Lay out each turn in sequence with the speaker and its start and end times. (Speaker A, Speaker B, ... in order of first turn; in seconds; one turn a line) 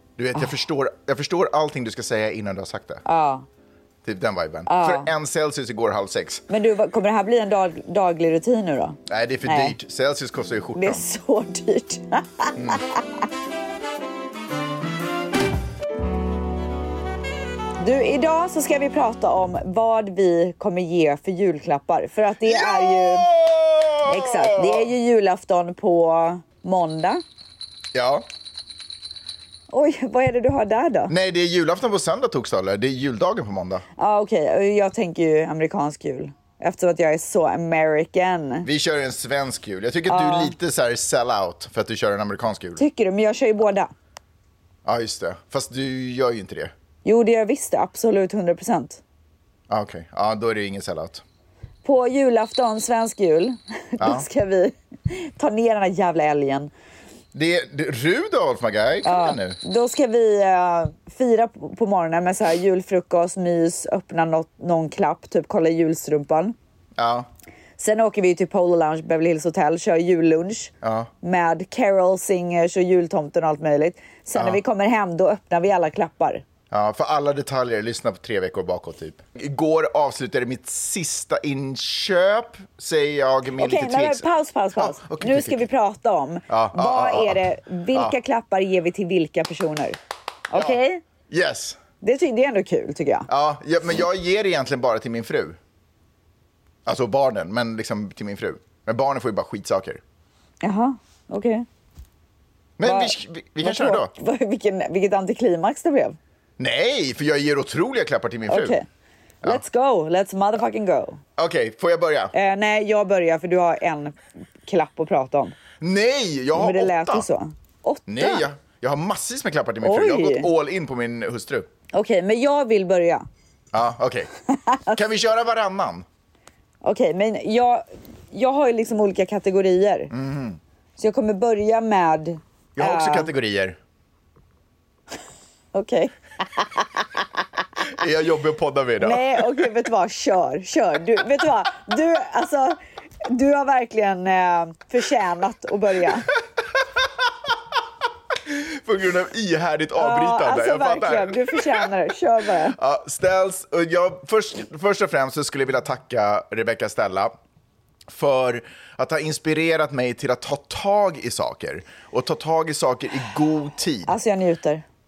Speaker A: 0.2-3.0
Speaker B: 3.1-3.5
Speaker A: 4.0-6.4
Speaker B: 4.7-5.1
Speaker B: 6.5-9.8
Speaker A: 9.1-11.0
Speaker B: 10.8-12.8
Speaker B: 17.8-23.3
Speaker A: 22.4-24.9
Speaker B: 24.1-27.2
Speaker A: 27.9-28.3
Speaker B: 29.7-31.1
Speaker A: 31.1-33.9
Speaker B: 34.0-38.7
Speaker A: 38.6-42.9
Speaker B: 40.1-40.5
Speaker B: 42.8-43.9
Speaker A: 44.9-46.7
Speaker B: 47.0-49.0
Speaker A: 49.7-51.2
Speaker B: 51.8-56.7
Speaker A: 54.0-54.3
Speaker A: 57.3-59.6
Speaker B: 59.0-66.5
Speaker A: 67.0-67.3
Speaker B: 67.8-76.4
Speaker A: 70.8-71.1
Speaker A: 74.3-74.6
Speaker A: 76.7-85.6
Speaker B: 83.6-90.0
Speaker A: 86.5-87.4
Speaker B: 90.5-91.0
Speaker A: 90.5-91.8
Speaker B: 92.0-93.3
Speaker A: 93.3-95.6
Speaker A: 96.9-100.0
Speaker B: 100.6-101.7
Speaker A: 102.8-104.1
Speaker B: 102.8-106.2
Speaker A: 106.6-108.8
Speaker B: 108.5-108.8
Speaker B: 109.4-111.2
Speaker A: 111.4-112.3
Speaker B: 112.3-115.6
Speaker A: 115.8-117.3
Speaker B: 116.5-118.5
Speaker A: 118.1-121.7
Speaker B: 119.8-120.5
Speaker B: 121.9-123.3
Speaker A: 123.7-124.3
Speaker B: 124.6-125.0
Speaker A: 124.9-126.1
Speaker B: 126.8-130.1
Speaker A: 130.1-130.6
Speaker B: 131.0-133.3
Speaker A: 132.8-133.8
Speaker B: 135.7-137.2
Speaker A: 137.8-139.7
Speaker B: 139.0-146.3
Speaker A: 148.4-151.9
Speaker B: 150.0-152.8
Speaker A: 152.7-157.4
Speaker A: 158.1-164.1
Speaker B: 164.1-164.8